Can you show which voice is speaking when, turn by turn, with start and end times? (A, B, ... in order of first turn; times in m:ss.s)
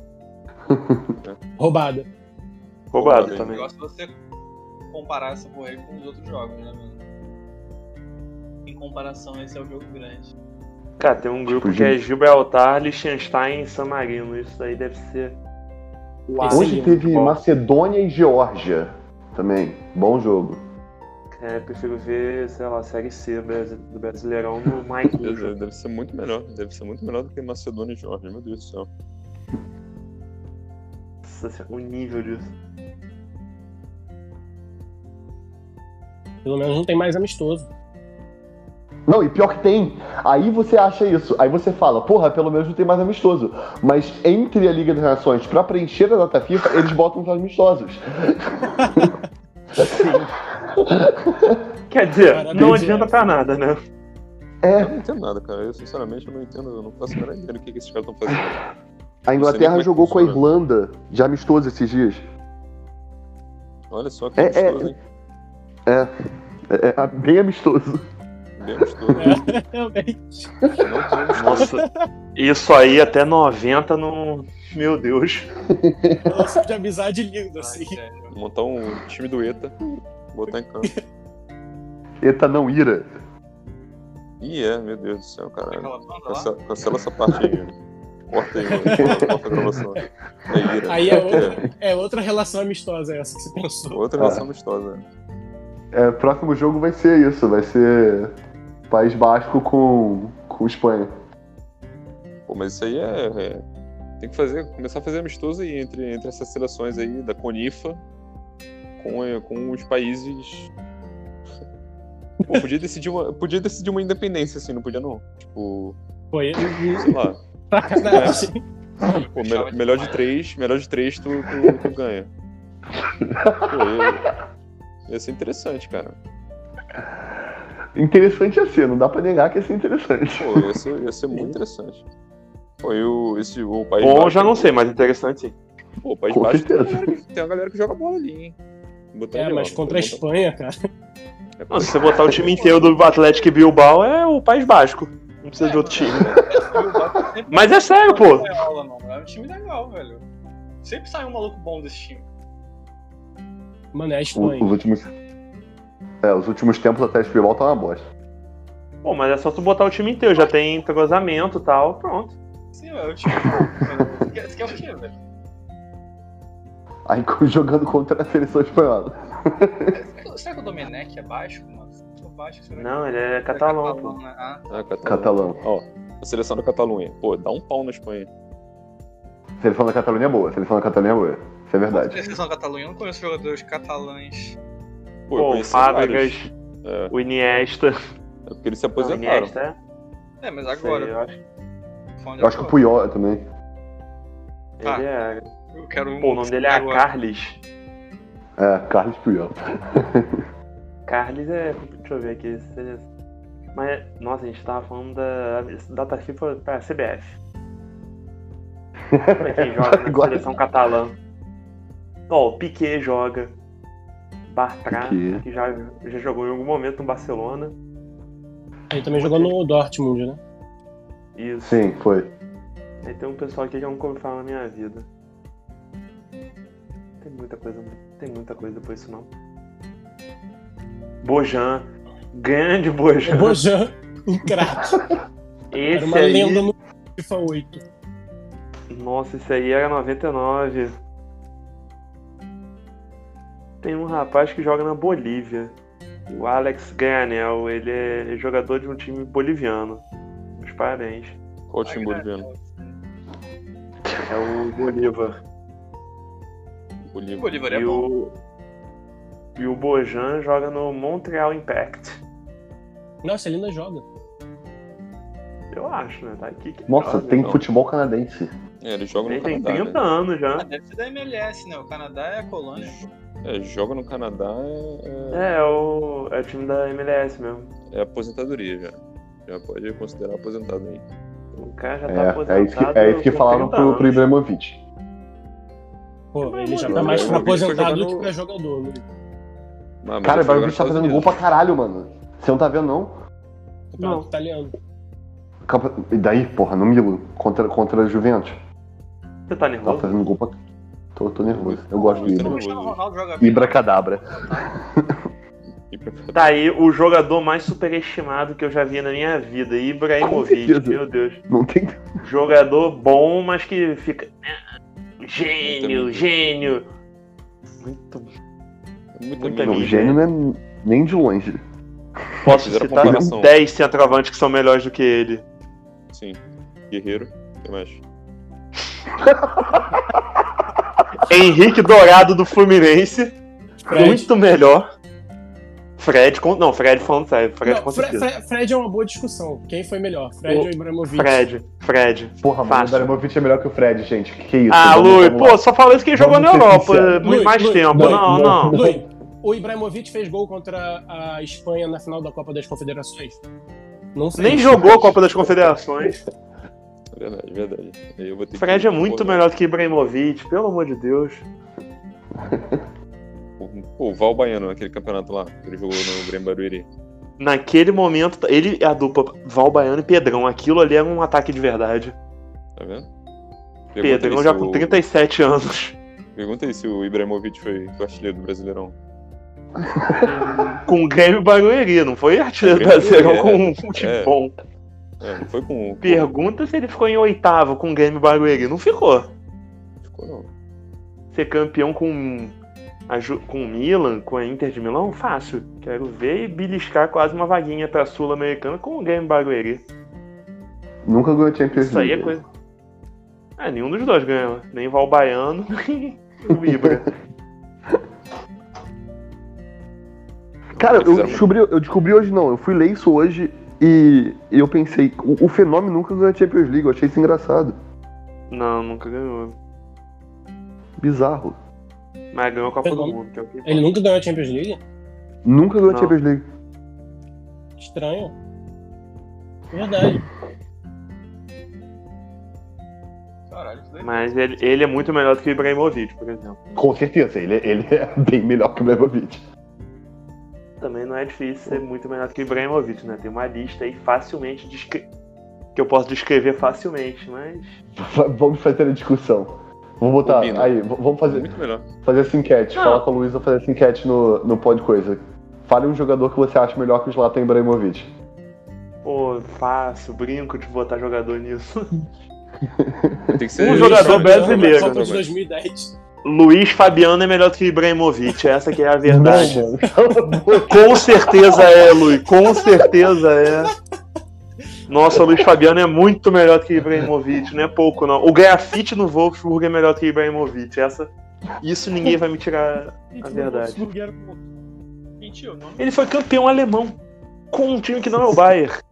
0:00.7-0:01.2 A
0:01.6-0:02.1 B
0:02.9-0:03.6 C
0:03.0-0:03.6 D
0:03.4-0:04.2 E
0:04.9-0:07.0 E
0:08.6-0:10.3 E
0:11.0-0:15.4 C
0:11.4-0:12.0 A
0:16.3-0:17.4 C
0:16.4-0:17.0 B
0:16.5-0:20.6 A
0:21.3-0:25.5 C
0:25.2-0:28.9 D
0:31.2-0:32.5 C
0:36.4-0:37.7 B
0:39.1-0:49.2 A
0:49.7-0:50.1 A
0:49.9-0:50.1 C
0:50.7-0:51.6 A
0:51.9-0:53.8 C
0:52.3-0:53.3 B
0:52.6-0:52.8 A
0:54.6-0:54.9 A
0:54.8-0:58.7 D
0:59.2-1:02.2 A
0:59.4-1:00.4 D
1:03.9-1:05.0 D
1:04.4-1:04.9 A
1:05.8-1:06.1 A
1:06.7-1:08.0 A
1:08.6-1:09.5 D
1:09.2-1:10.6 B
1:10.8-1:11.7 D
1:11.3-1:11.8 C
1:11.5-1:12.1 B
1:12.3-1:15.5 C
1:15.7-1:16.4 A
1:16.2-1:18.0 B
1:17.6-1:18.3 E
1:18.3-1:19.8 D
1:20.3-1:20.9 D
1:22.2-1:23.1 A
1:24.4-1:27.7 D
1:25.7-1:26.5 E
1:28.3-1:31.6 D
1:28.7-1:29.2 B
1:28.9-1:29.8 A
1:30.9-1:34.0 B
1:31.1-1:31.6 A
1:33.9-1:35.0 D
1:34.2-1:34.4 A
1:35.9-1:38.3 A
1:38.9-1:41.1 A
1:42.5-1:43.6 D
1:44.2-1:48.0 D
1:49.0-1:50.7 D
1:52.5-1:56.0 D
1:56.3-1:57.1 B
1:56.9-1:57.4 D
1:57.7-1:58.6 B
1:58.0-1:58.5 D
1:59.1-2:00.3 E
1:59.2-2:02.3 D
2:03.2-2:04.2 A
2:03.7-2:04.3 D
2:05.1-2:06.2 D
2:08.0-2:10.6 A
2:10.4-2:12.0 D
2:12.8-2:14.7 D
2:14.0-2:15.5 C
2:16.0-2:18.6 D
2:16.3-2:17.1 A
2:19.1-2:20.2 D
2:19.3-2:20.8 B
2:21.6-2:22.3 D
2:21.7-2:26.4 C
2:22.3-2:23.5 E
2:25.6-2:30.2 E
2:26.0-2:26.4 D
2:27.5-2:28.5 C
2:30.8-2:32.2 E
2:33.9-2:34.8 B
2:34.4-2:35.1 A
2:36.2-2:38.0 A
2:39.0-2:42.3 C
2:42.7-2:45.2 E
2:47.1-2:50.0 A
2:49.9-2:54.6 E
2:52.8-2:54.2 C
2:54.7-2:58.3 D
2:55.0-2:55.6 A
2:59.6-3:02.3 A
3:01.9-3:04.6 E
3:05.3-3:07.1 D
3:05.3-3:06.5 C
3:07.1-3:07.9 C
3:08.5-3:09.5 D
3:09.0-3:09.8 C
3:10.4-3:11.1 E
3:10.7-3:11.4 C
3:12.2-3:12.8 E
3:12.4-3:13.4 A
3:14.8-3:15.5 C
3:14.8-3:15.1 E
3:15.7-3:17.0 E
3:16.2-3:17.6 C
3:18.6-3:20.4 A
3:21.1-3:23.0 C
3:23.7-3:27.4 C
3:29.1-3:30.5 A
3:29.4-3:31.1 C
3:32.3-3:33.5 C
3:34.5-3:37.7 C
3:34.9-3:35.4 A
3:38.9-3:40.4 B
3:39.1-3:39.5 C
3:41.4-3:41.8 C
3:41.6-3:42.3 A
3:43.0-3:45.1 C
3:47.2-3:49.3 C
3:51.2-3:53.6 C
3:53.2-3:55.1 B
3:55.7-3:56.7 C
3:55.9-3:57.8 B
3:58.9-4:01.0 C
4:03.8-4:05.7 C
4:06.3-4:10.0 C
4:10.5-4:11.4 C
4:11.7-4:12.4 D
4:11.8-4:13.0 E
4:14.2-4:15.4 C
4:17.1-4:17.6 D
4:17.4-4:18.1 E
4:17.7-4:18.4 C
4:19.6-4:22.2 C
4:23.2-4:24.0 B
4:25.7-4:27.5 C
4:26.9-4:28.5 A
4:28.8-4:30.0 D
4:29.2-4:30.7 C
4:30.6-4:33.1 E
4:32.8-4:35.5 D
4:35.3-4:37.7 C
4:37.9-4:41.0 D
4:41.5-4:44.3 C
4:42.1-4:44.8 A
4:46.3-4:49.0 B
4:46.4-4:47.5 C
4:46.8-4:48.3 D
4:50.0-4:51.4 D
4:50.2-4:53.1 A
4:53.9-4:54.7 B
4:54.0-4:54.3 C
4:55.6-4:58.6 A
4:59.5-5:00.2 C
4:59.8-5:00.6 A
5:01.2-5:02.6 A
5:01.5-5:03.0 D
5:02.0-5:04.7 E
5:03.4-5:05.2 A
5:05.9-5:06.6 D
5:06.3-5:11.4 C
5:10.2-5:12.2 A
5:12.2-5:14.6 C
5:15.2-5:16.8 C
5:15.6-5:16.7 D
5:17.8-5:18.3 C
5:19.2-5:20.1 D
5:19.4-5:20.2 C
5:19.6-5:21.6 A
5:22.4-5:23.3 A
5:22.4-5:25.4 C
5:22.5-5:23.5 D
5:26.1-5:26.4 D
5:26.9-5:28.0 D
5:31.2-5:33.3 C
5:33.9-5:34.3 B
5:33.9-5:34.8 C
5:36.0-5:38.3 C
5:37.6-5:41.5 B
5:40.5-5:43.1 C
5:42.4-5:45.6 A
5:44.7-5:48.8 C
5:46.1-5:47.4 A
5:47.2-5:53.4 B
5:47.9-5:49.0 A
5:54.1-5:55.2 B
5:54.4-5:56.2 C
5:57.1-5:59.4 D
5:58.6-6:01.4 C
6:02.4-6:02.8 A
6:03.6-6:06.9 D
6:07.4-6:12.1 C
6:12.8-6:13.1 D
6:13.9-6:15.0 D
6:14.0-6:15.9 C
6:16.4-6:18.9 D
6:19.8-6:20.8 A
6:20.2-6:24.5 C
6:22.6-6:24.3 D
6:25.2-6:26.3 D
6:26.0-6:29.3 C
6:30.0-6:30.5 D
6:31.3-6:32.5 C
6:33.1-6:39.8 C
6:41.0-6:42.3 A
6:41.7-6:42.4 C
6:43.6-6:47.1 C
6:46.5-6:47.0 A
6:50.8-6:51.4 C
6:50.8-6:57.8 A
6:50.8-6:51.4 D
6:58.5-6:59.6 C
7:01.0-7:01.6 A
7:02.3-7:03.8 C
7:02.8-7:04.8 B
7:05.4-7:06.4 A
7:05.9-7:06.1 C
7:07.8-7:08.3 B
7:09.7-7:10.2 B
7:13.5-7:14.4 E
7:14.0-7:16.6 C
7:16.7-7:19.4 A
7:20.8-7:25.1 C
7:25.7-7:27.7 C
7:28.0-7:31.5 A
7:30.2-7:30.7 D
7:31.2-7:31.8 D
7:32.0-7:38.1 A
7:32.8-7:33.0 C
7:39.0-7:41.9 C
7:42.6-7:43.4 A
7:43.3-7:45.3 D
7:43.6-7:45.0 C
7:43.6-7:45.9 B
7:46.2-7:49.6 C
7:49.0-7:51.6 A
7:50.6-7:53.7 C
7:54.9-8:03.8 C
8:03.1-8:04.4 B
8:05.2-8:05.9 E
8:05.8-8:07.0 C
8:07.5-8:08.7 C